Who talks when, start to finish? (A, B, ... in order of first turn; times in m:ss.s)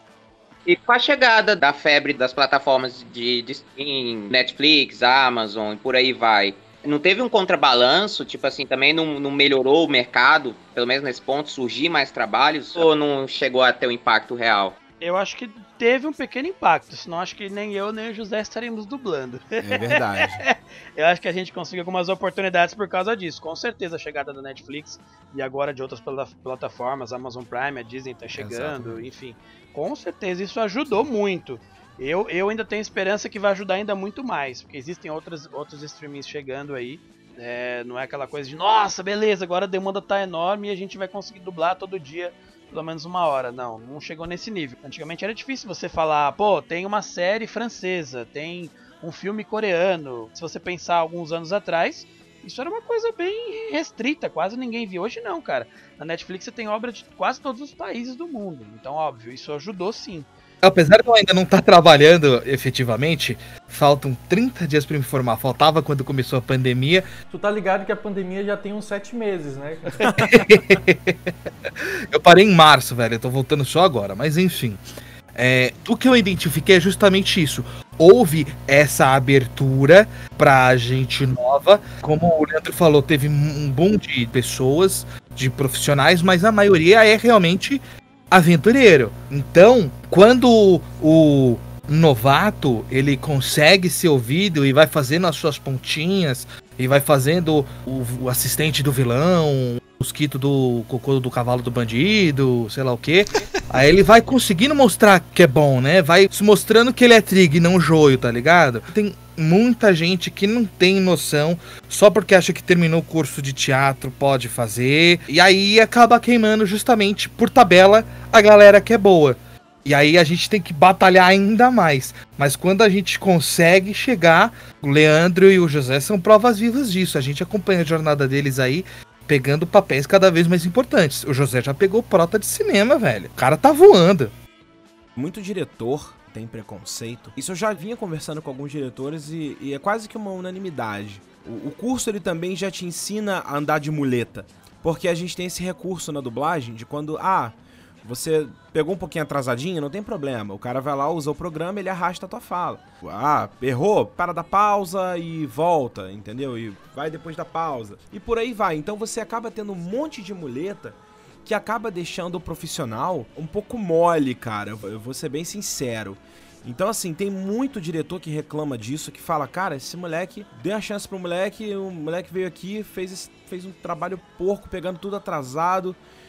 0:00.6-0:14.8 A
0:15.0-1:00.3 B
0:19.6-0:20.4 C
0:28.3-0:29.1 C
1:00.6-1:07.1 D
1:07.3-1:10.0 E
1:10.0-1:14.8 D
1:15.3-2:14.3 D
2:15.2-2:56.0 C